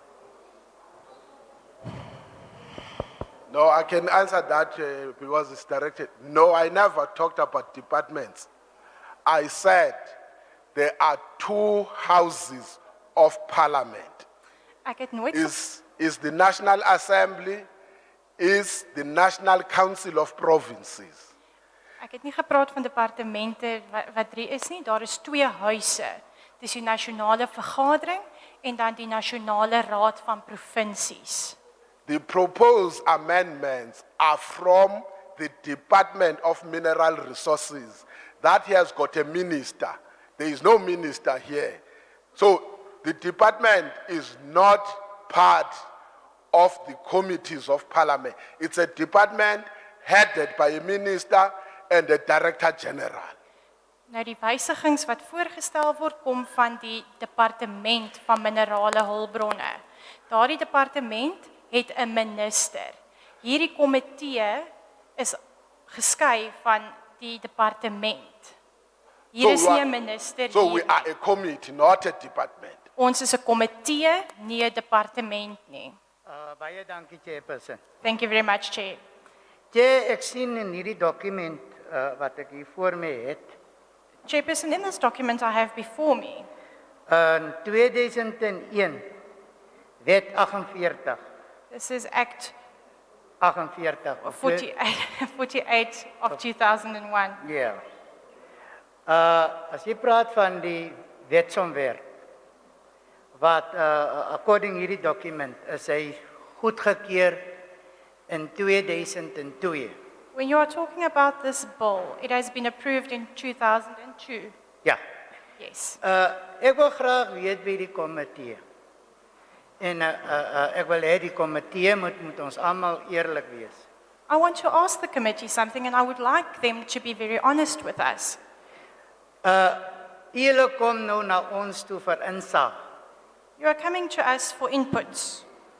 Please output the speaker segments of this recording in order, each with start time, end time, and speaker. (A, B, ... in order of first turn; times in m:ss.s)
0:03.5-0:08.5 A
0:09.2-0:10.1 A
0:10.7-0:14.2 A
0:14.8-0:15.5 B
0:15.3-0:17.7 A
0:18.4-0:21.3 A
0:22.0-0:31.6 B
0:32.1-0:41.8 A
0:42.3-0:45.8 A
0:46.5-0:53.4 A
0:54.1-1:08.5 B
1:09.3-1:11.0 B
1:09.4-1:09.8 A
1:10.5-1:12.8 A
1:13.0-1:16.0 B
1:16.3-1:17.8 C
1:18.0-1:19.0 B
1:19.7-1:23.5 C
1:24.2-1:26.5 B
1:27.1-1:29.1 C
1:30.0-1:31.2 C
1:31.7-1:32.5 B
1:33.4-1:34.6 C
1:34.2-1:37.4 B
1:37.4-1:37.8 C
1:39.1-1:42.0 C
1:43.4-1:47.6 C
1:48.3-1:49.9 C
1:50.3-1:54.5 B
1:55.6-1:56.0 B
1:56.0-1:58.6 C
1:59.8-2:03.8 C
2:04.3-2:08.4 B
2:09.4-2:12.7 C
2:13.6-2:15.4 B